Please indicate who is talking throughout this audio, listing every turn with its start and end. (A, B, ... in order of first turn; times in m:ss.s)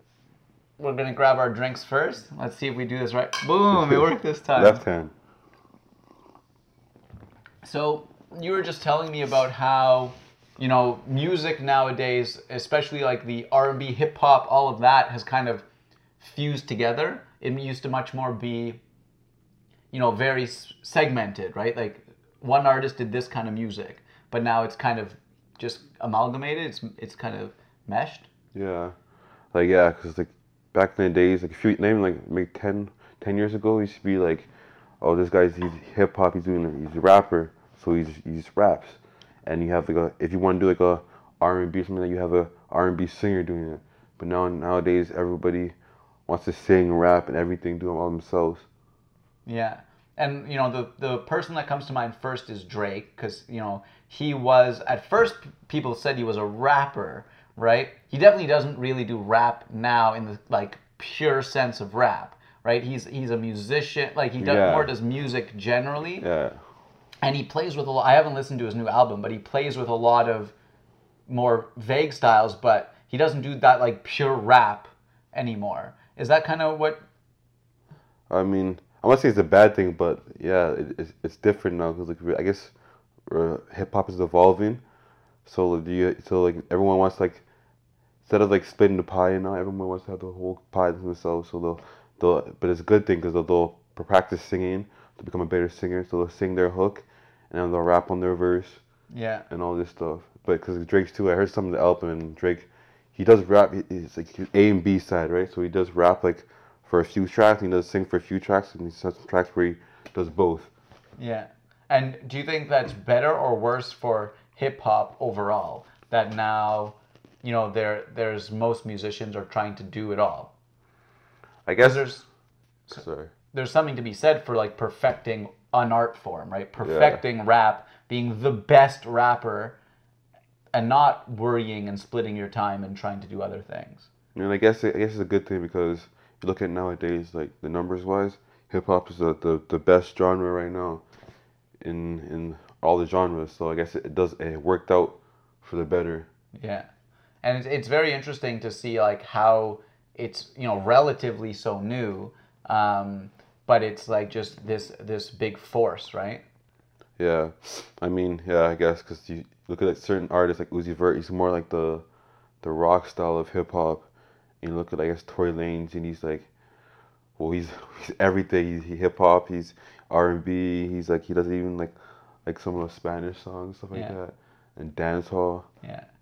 0:00.8-0:04.8 A
0:03.7-0:05.1 B
0:07.6-0:15.6 A
0:16.2-0:18.8 A
0:19.9-0:28.3 A
0:28.5-0:29.0 B
0:29.5-0:34.5 B
0:35.0-0:45.7 B
0:46.3-0:48.6 B
0:49.4-1:06.2 A
1:04.4-1:04.9 B
1:06.2-1:06.6 B
1:07.2-1:10.5 A
1:11.3-1:17.0 A
1:18.3-1:22.7 B
1:23.3-1:24.8 B
1:25.4-1:27.4 B
1:28.2-1:38.8 B
1:39.1-1:39.4 A
1:39.5-1:50.7 B
1:51.2-2:00.5 A
2:01.6-2:02.0 B
2:01.8-2:02.3 A
2:02.9-2:03.3 B
2:03.5-2:09.8 A
2:06.8-2:07.2 B
2:10.7-2:14.1 A
2:14.3-2:21.0 B
2:21.8-2:26.3 B
2:26.6-2:26.9 A
2:27.4-2:36.4 A
2:37.2-2:42.0 B
2:42.6-2:44.1 B
2:44.6-2:46.5 B
2:47.4-2:51.9 B
2:52.4-2:55.6 B
2:53.9-2:54.2 A
2:55.8-2:56.1 A